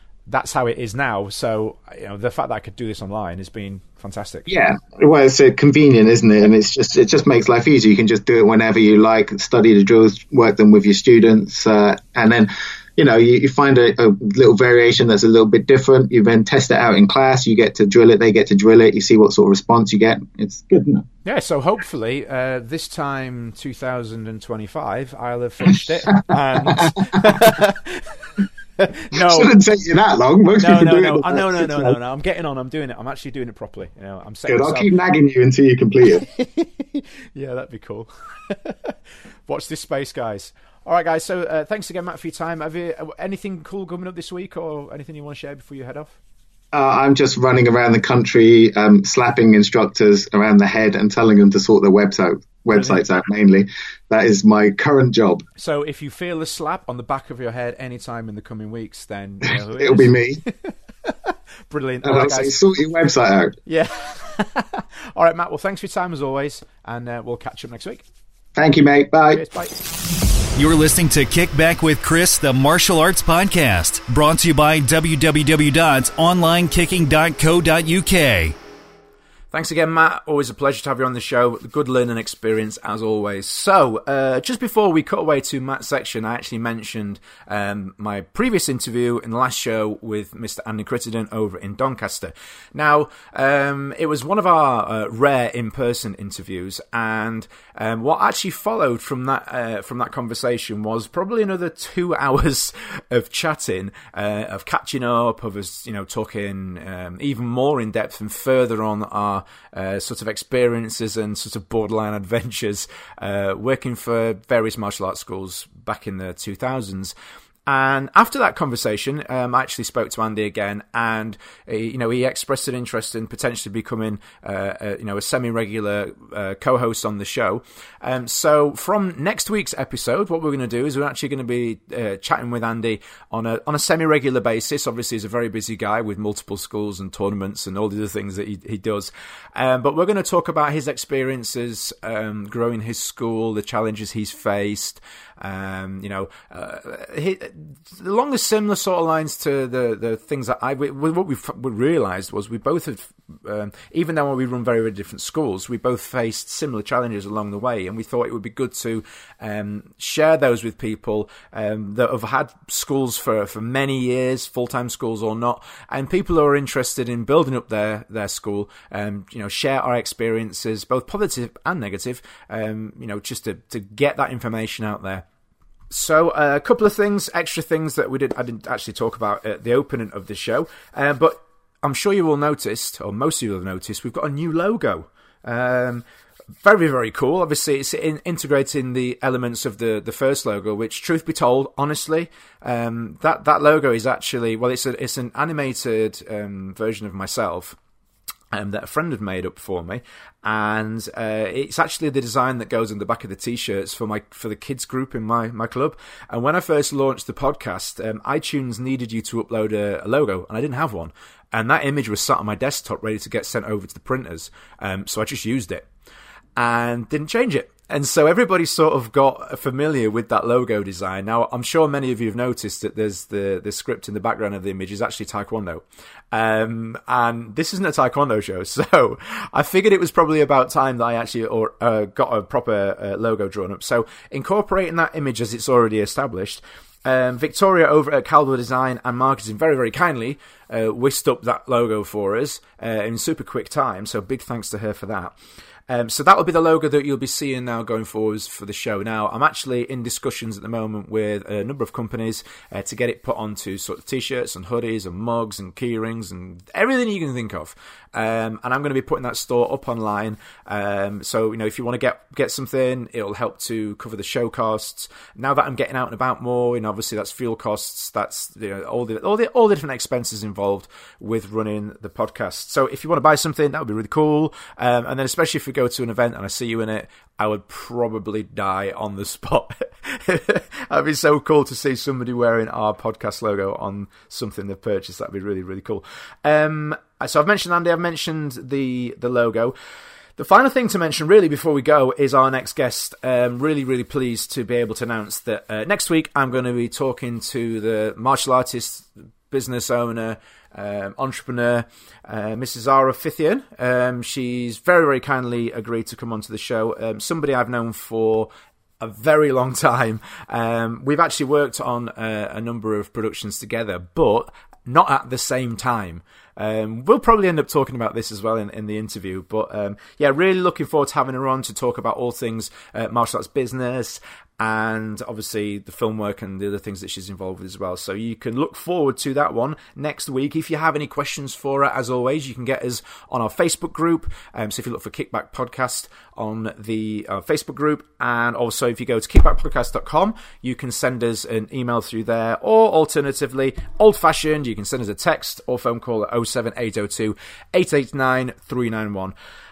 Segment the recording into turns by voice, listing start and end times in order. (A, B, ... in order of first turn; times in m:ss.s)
0:00.3-0:04.5 A
0:04.5-0:21.1 B
0:21.2-0:29.5 A
0:26.7-0:27.4 B
0:29.2-0:32.0 B
0:30.6-0:34.9 A
0:34.5-0:36.3 B
0:36.1-0:46.2 A
0:46.7-0:55.4 B
0:52.7-0:53.0 A
0:55.6-1:02.6 A
0:59.8-1:00.4 B
1:02.0-1:03.6 B
1:03.7-1:08.0 A
1:08.6-1:09.4 B
1:09.3-1:09.8 A
1:10.6-1:18.6 C
1:19.5-1:57.1 A
1:57.7-2:55.2 A
2:55.9-3:06.0 A
3:06.6-3:17.8 A
3:18.5-3:35.9 A
3:36.6-4:05.4 A
4:05.9-4:49.8 A
4:50.4-5:08.5 A
5:09.0-5:49.3 A